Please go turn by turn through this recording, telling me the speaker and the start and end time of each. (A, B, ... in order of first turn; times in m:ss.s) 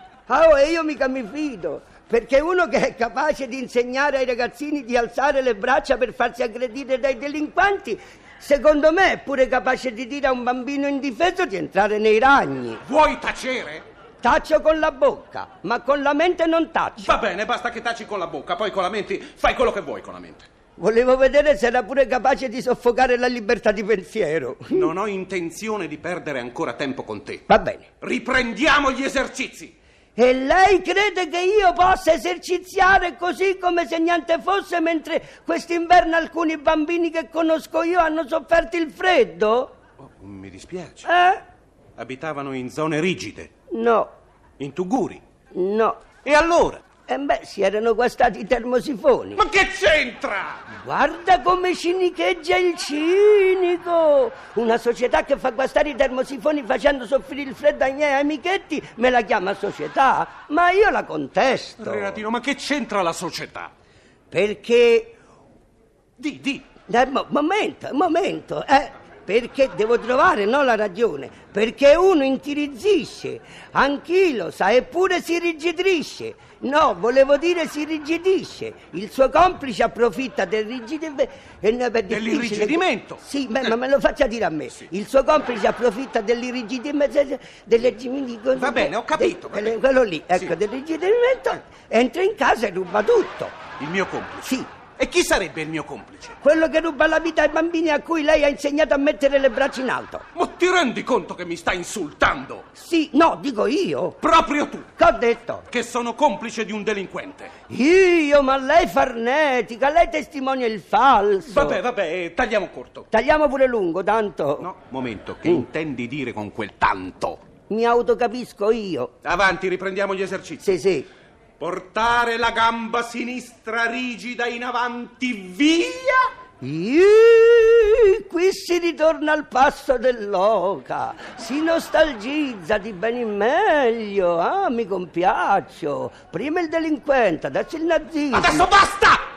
0:00.3-0:12.8 A
0:12.8-0:13.8 B
0:14.2-0:17.2 A
0:17.0-0:20.5 B
0:20.8-0:24.9 A
0:24.7-0:27.4 B
0:27.5-0:27.9 A
0:28.0-0:29.7 B
0:30.2-0:39.7 A
0:40.0-0:41.1 B
0:41.0-0:41.4 A
0:42.0-0:43.5 B
0:43.7-0:44.1 A
0:44.6-0:45.2 B
0:45.5-0:46.0 A
0:46.2-0:46.8 B
0:47.1-0:49.4 A
0:49.4-0:50.6 B
0:50.7-1:02.2 A
1:01.8-1:03.7 B
1:04.3-1:05.1 A
1:06.2-1:06.6 B
1:06.9-1:33.6 A
1:22.1-1:23.2 B
1:28.5-1:29.8 B
1:33.8-1:36.4 B
1:36.4-1:40.2 A
1:40.3-1:42.6 B
1:42.7-1:44.2 A
1:44.2-1:44.9 B
1:45.0-1:45.6 A
1:45.7-1:47.5 B
1:47.7-1:51.8 A
1:51.5-1:53.0 B
1:53.1-1:54.7 A
1:54.6-1:57.4 B
1:57.7-1:59.1 A
1:59.2-2:00.6 B
2:00.6-2:01.1 A
2:01.6-2:06.2 B
2:06.6-2:18.7 A
2:18.3-2:19.2 B